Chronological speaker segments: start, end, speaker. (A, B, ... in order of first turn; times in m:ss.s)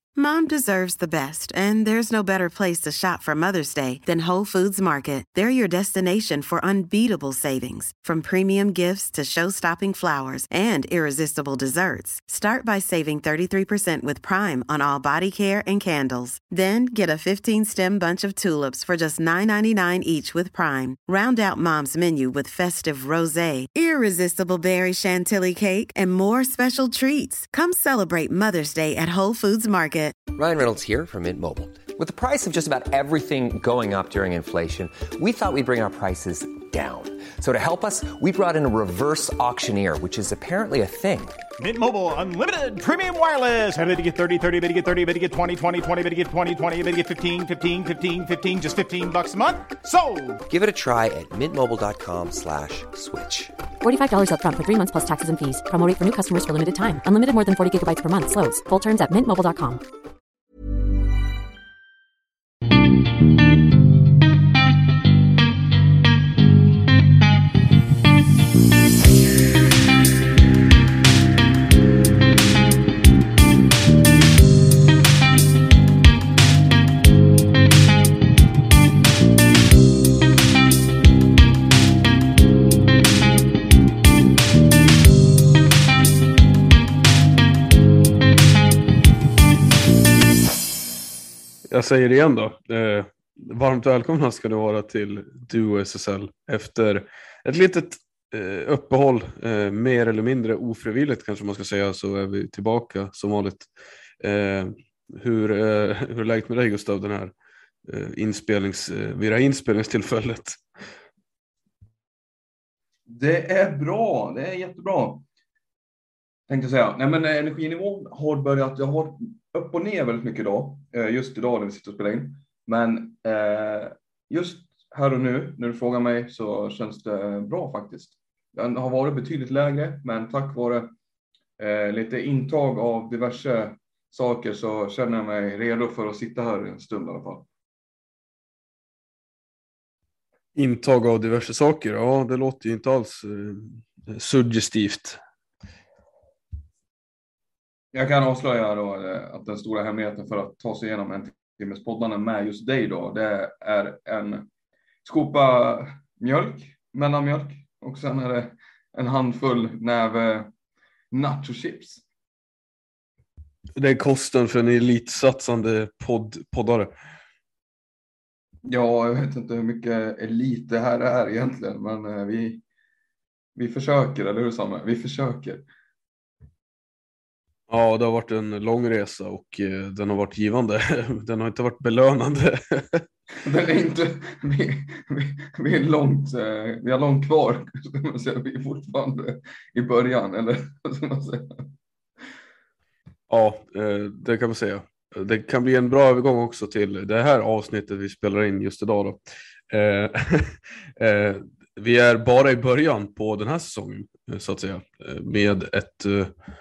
0:00.2-0:30.2 A
0:30.4-0:41.4 B
0:41.6-0:50.4 C
0:50.5-0:53.6 B
0:53.8-0:59.8 D
1:31.7-1:47.3 E
1:47.8-1:50.6 E
1:53.1-1:55.2 F
1:56.5-2:10.9 F
2:11.6-2:17.5 F
2:20.6-2:25.2 E
2:27.9-2:34.5 F
2:35.0-2:40.5 F
2:41.1-2:42.0 F
2:43.8-2:46.9 E
2:48.6-2:52.6 F
2:53.6-2:55.6 F
2:57.7-3:03.0 E
3:03.4-3:11.7 F
3:13.3-3:26.3 E